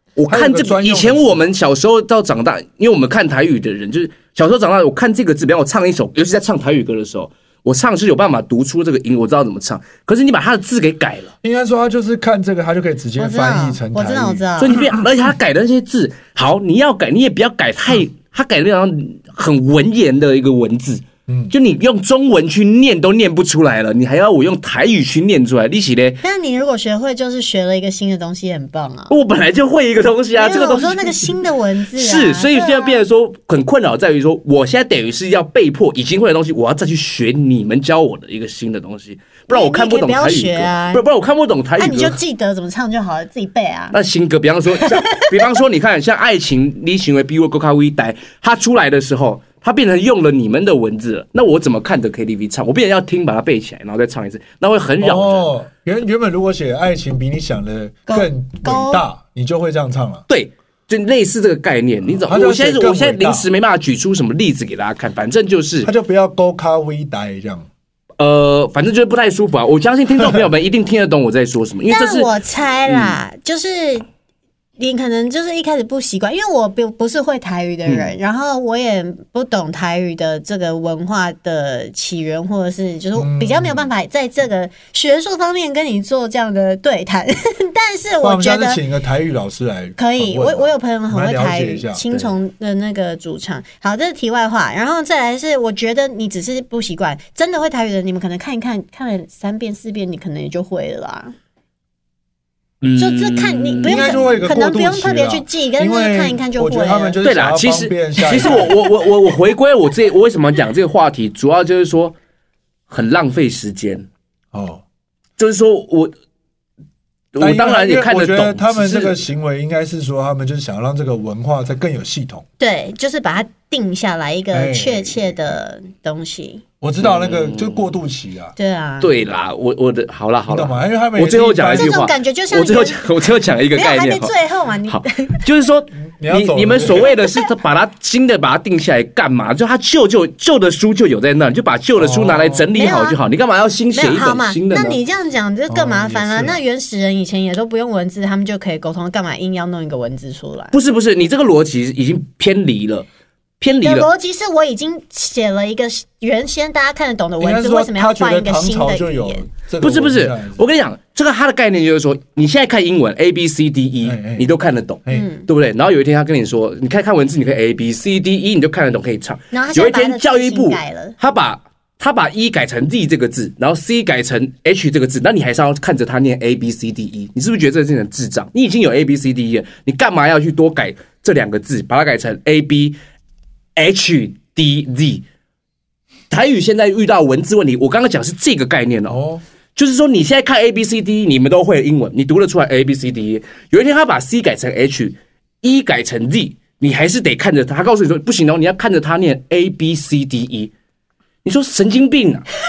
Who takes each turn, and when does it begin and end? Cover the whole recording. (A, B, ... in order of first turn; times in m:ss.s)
0:00.2-0:11.3 A
0:00.3-0:01.5 B
0:11.4-0:14.8 B
0:13.2-0:14.8 C
0:14.6-0:26.2 A
0:21.3-0:21.5 B
0:26.2-0:29.1 C
0:29.1-0:31.3 A
0:30.4-0:33.0 C
0:31.9-0:42.2 A
0:39.5-0:41.0 C
0:41.8-0:43.9 C
0:43.9-0:55.5 A
0:44.7-0:45.5 C
0:55.0-1:00.2 B
0:58.1-0:59.0 C
1:00.3-1:05.9 A
1:02.1-1:03.5 B
1:05.8-1:07.7 B
1:08.2-1:12.3 A
1:10.2-1:10.4 B
1:11.9-1:14.0 C
1:12.9-1:13.2 A
1:14.8-1:28.8 C
1:17.9-1:18.1 A
1:23.1-1:23.9 B
1:28.2-1:32.0 B
1:30.0-1:41.3 C
1:42.8-1:44.3 A
1:43.0-1:47.2 C
1:43.8-1:48.7 B
1:47.2-1:52.1 A
1:52.9-1:54.1 A
1:54.5-1:54.8 B
1:55.4-1:56.1 A
1:57.3-1:59.2 A
1:57.4-2:02.4 B
2:02.6-2:06.6 C
2:04.5-2:05.2 B
2:06.8-2:08.5 B
2:07.0-2:07.9 A
2:08.6-2:09.1 C
2:09.0-2:14.3 A
2:10.5-2:12.0 B
2:11.7-2:13.0 C
2:13.7-2:15.4 C
2:14.8-2:25.0 A
2:16.0-2:17.1 B
2:22.0-2:22.7 B
2:22.7-2:23.2 C
2:23.9-2:30.7 C
2:25.7-2:26.6 B
2:30.7-2:33.1 A
2:33.6-2:34.1 A
2:33.8-2:39.5 C
2:37.4-2:40.6 B
2:39.8-3:03.0 A
2:44.0-2:44.5 B
2:45.1-2:45.5 C
2:49.5-2:51.2 C
3:03.8-3:05.2 A
3:06.3-3:09.2 A
3:09.1-3:09.4 B
3:09.7-3:20.7 A
3:21.4-3:22.4 A